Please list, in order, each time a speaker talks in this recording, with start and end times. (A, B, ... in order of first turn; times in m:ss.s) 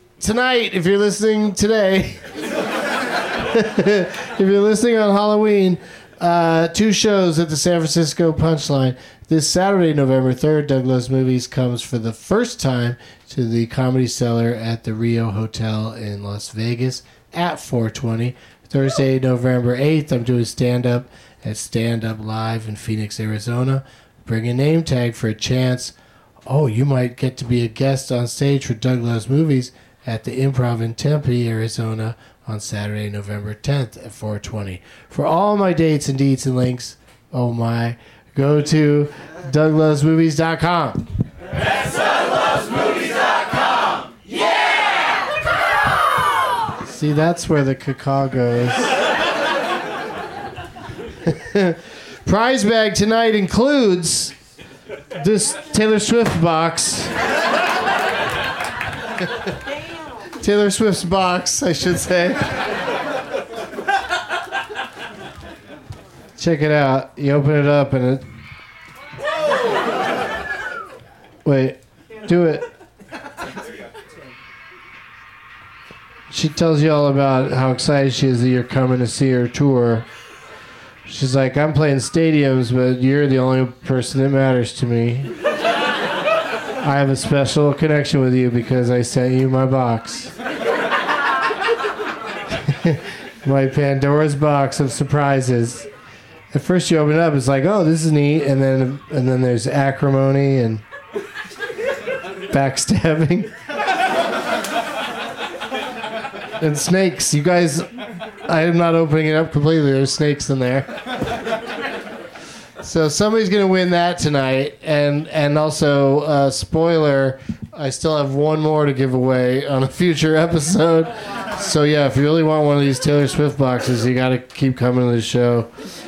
0:00.2-0:02.2 A
0:03.5-0:25.9 A
0:26.5-0:41.1 A
0:46.9-0:48.9 A
0:51.3-0:54.3 A
0:55.2-0:57.1 A
1:00.4-1:02.6 A
1:06.4-1:08.2 A
1:11.4-1:12.7 A
1:16.3-1:20.1 A
1:21.1-1:25.3 A
1:26.8-1:30.3 A
1:32.7-1:35.9 A
1:36.5-1:40.8 A
1:42.5-1:43.5 A
1:46.6-1:47.9 A
1:48.5-1:50.9 A
1:52.8-2:05.7 A